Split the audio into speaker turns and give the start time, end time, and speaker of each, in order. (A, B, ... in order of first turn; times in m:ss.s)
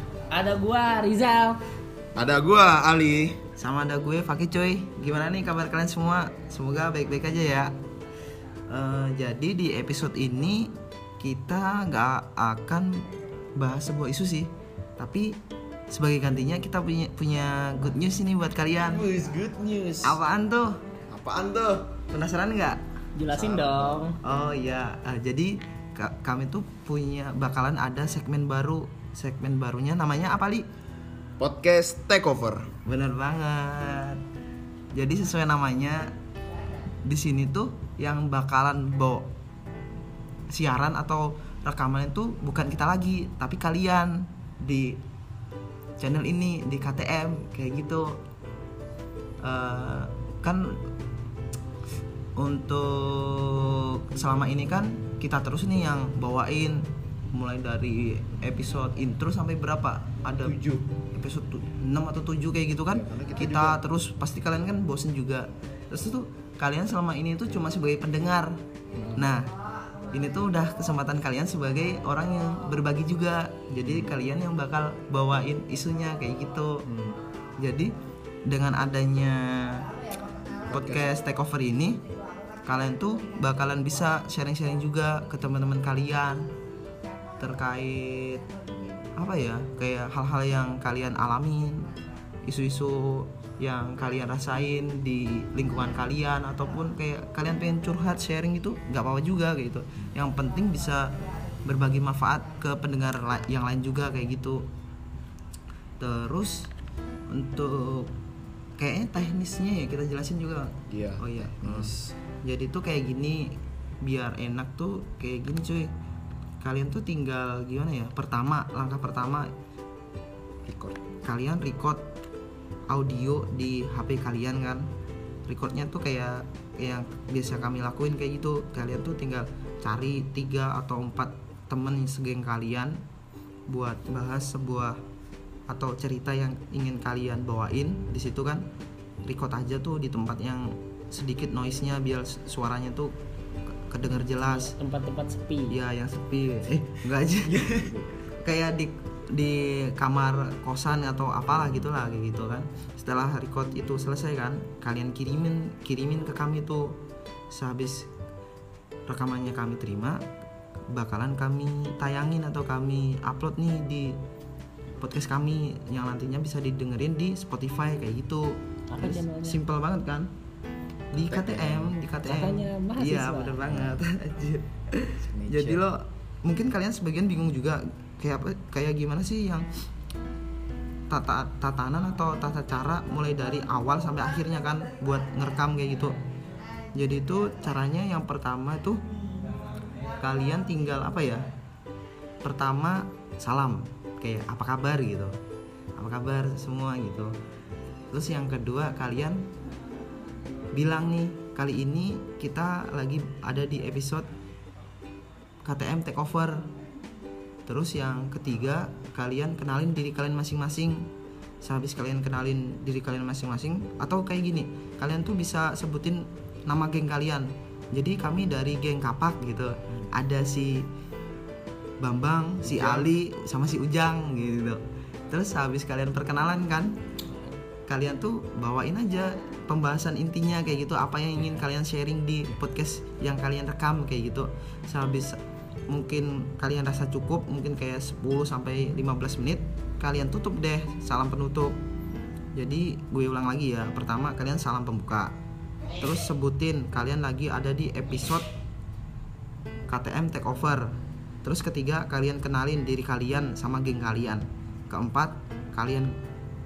0:00.3-0:01.6 A
0:02.1-0:03.4 B
0:03.6-0:07.7 C
0:08.7-0:13.0 C
0:13.6-0:15.3 C
0:15.9-0:19.1 C
0:18.8-0:20.2 B
0:20.0-0:20.8 C
0:21.1-0:21.9 B
0:22.1-0:22.8 C
0:23.1-0:24.2 A
0:23.3-0:24.2 B
0:24.2-0:30.6 C
0:31.4-0:32.7 B
0:32.8-0:34.2 C
0:34.9-0:36.1 C
0:37.0-0:39.3 C
0:40.5-0:45.0 C
0:46.0-0:48.2 C
0:49.4-0:50.8 C
0:52.4-1:00.6 C
1:00.4-1:00.8 B
1:01.1-1:08.6 C
1:02.9-1:03.8 B
1:08.9-1:09.3 B
1:09.1-1:09.5 C
1:10.1-1:16.9 C
1:13.8-1:14.1 B
1:16.8-1:17.2 B
1:17.6-1:17.9 C
1:18.5-1:19.9 C
1:20.6-1:21.1 B
1:20.7-1:22.0 C
1:22.6-1:26.5 C
1:27.4-1:28.4 C
1:29.2-1:31.9 C
1:32.4-1:44.7 C
1:46.0-1:46.7 C
1:47.3-1:48.1 C
1:48.8-1:55.9 C
1:50.9-1:52.2 B
1:56.6-1:59.5 C
2:00.6-2:01.0 B
2:01.2-2:02.0 C
2:02.9-2:04.9 C
2:05.5-2:13.0 C
2:13.7-2:15.0 C
2:15.7-2:18.6 C
2:19.2-2:23.1 C
2:23.8-2:24.7 C
2:24.4-2:25.8 A
2:25.7-2:27.6 C
2:27.4-2:28.1 B
2:28.4-2:37.0 C
2:37.5-2:38.1 C
2:39.1-2:40.2 C
2:40.9-2:44.2 C
2:45.0-2:50.3 C
2:48.9-2:49.6 A
2:51.1-2:59.6 C
2:51.2-2:51.9 B
2:52.2-2:53.8 A
2:55.2-2:55.8 B
3:01.1-3:06.2 C
3:06.9-3:09.0 C
3:10.2-3:11.5 C
3:12.4-3:15.4 C
3:16.0-3:17.3 C
3:18.1-3:19.5 C
3:20.7-3:24.3 C
3:25.6-3:26.7 C
3:27.6-3:31.1 C
3:31.6-3:40.9 C
3:42.0-3:46.9 C
3:42.6-3:43.1 B
3:47.9-4:01.8 C
4:02.5-4:05.3 C
4:06.0-4:08.5 C
4:09.9-4:16.1 C